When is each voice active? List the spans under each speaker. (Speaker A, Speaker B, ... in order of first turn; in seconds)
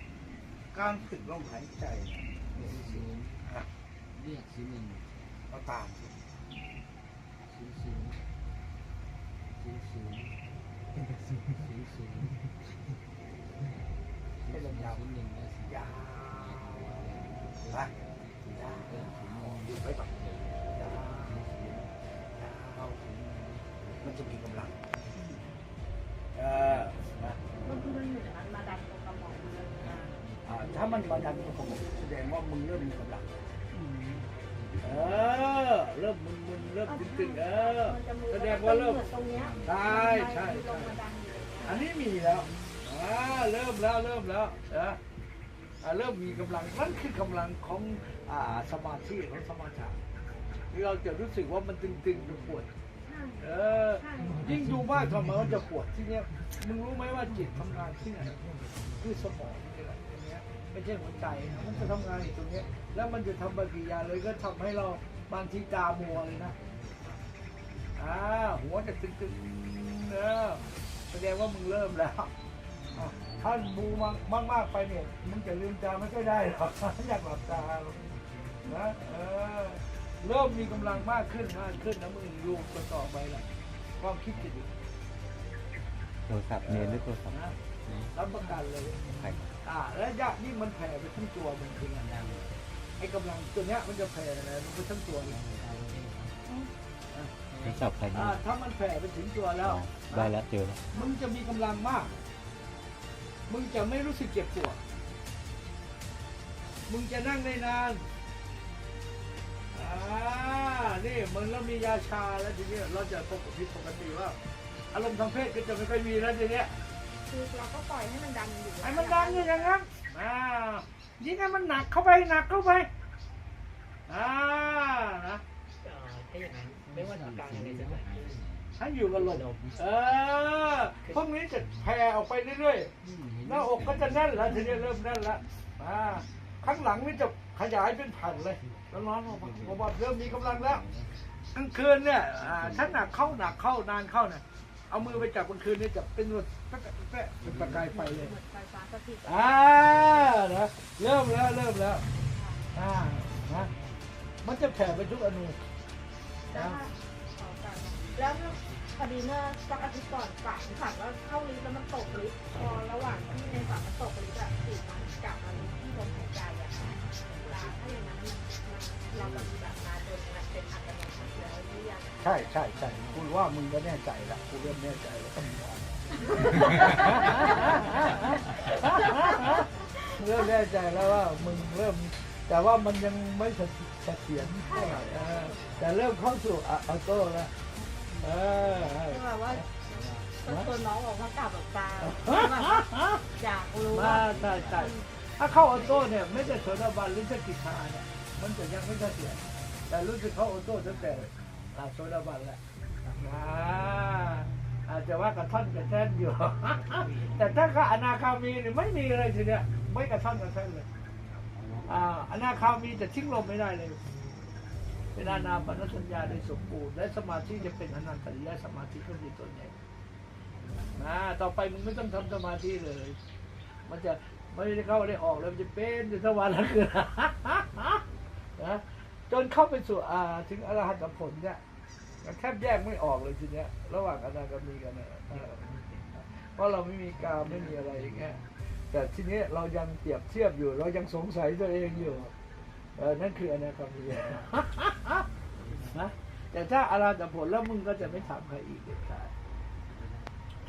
Speaker A: 0.7-3.7, 5.5-6.2, 14.5-15.1, 15.7-17.1, 17.6-17.9, 18.5-20.1, 20.7-21.6, 22.4-23.0, 24.0-24.9, 26.4-27.4, 30.4-33.3, 34.8-39.1, 39.6-41.0, 41.6-45.0, 45.8-50.0, 50.7-52.7, 53.4-58.4, 59.0-66.5, 68.0-72.3, 72.9-78.0, 78.7-83.4, 84.0-84.7, 86.6-87.6, 88.1-89.0, 89.6-92.1, 93.0-95.4, 96.5-97.3, 98.1-100.4, 100.9-102.2, 103.5-104.8, 106.9-108.1, 109.7-114.4, 114.9-116.7, 118.8-122.9, 124.1-125.4, 128.8-140.8, 141.5-148.4, 149.2-152.0, 152.8-153.7, 154.4-155.6, 156.5-156.8, 172.2-178.3, 178.8-187.5, 188.2-189.7, 192.0-193.2, 193.9-202.6, 203.2-210.9, 211.9-214.0, 215.2-219.7, 221.0-231.6, 232.2-245.2, 245.9-249.3
Speaker B: 2.5-3.5, 4.1-5.2, 7.5-8.2, 9.6-10.4, 11.5-12.5, 14.4-22.0, 23.0-24.3, 26.8-27.6, 30.2-30.4, 34.3-35.1, 39.4-39.7, 66.3-67.8, 73.0-73.5, 78.0-78.8, 87.8-88.2, 89.0-89.5, 92.0-92.6, 95.3-96.4, 97.5-97.9, 126.9-128.8, 133.0-134.4, 138.6-141.2, 142.4-143.5, 147.4-147.9, 153.4-154.1, 166.9-167.2, 169.1-169.7, 172.8-173.3, 176.3-178.0, 187.8-189.0, 189.9-190.4, 194.5-194.9, 200.8-201.8, 202.9-203.2, 207.1-207.5, 211.5-212.0, 235.6-236.0, 237.5-238.5, 245.1-246.1, 249.9-250.3
Speaker C: 27.6-30.2, 36.9-41.8, 53.0-54.5, 117.3-119.8, 147.9-149.7, 152.2-152.6, 156.5-172.3, 176.3-179.7, 184.7-185.8, 189.1-195.1
Speaker D: 33.9-34.2, 125.8-128.4, 129.2-129.7
Speaker E: 86.3-87.5, 89.1-89.4, 97.6-98.4, 99.6-100.8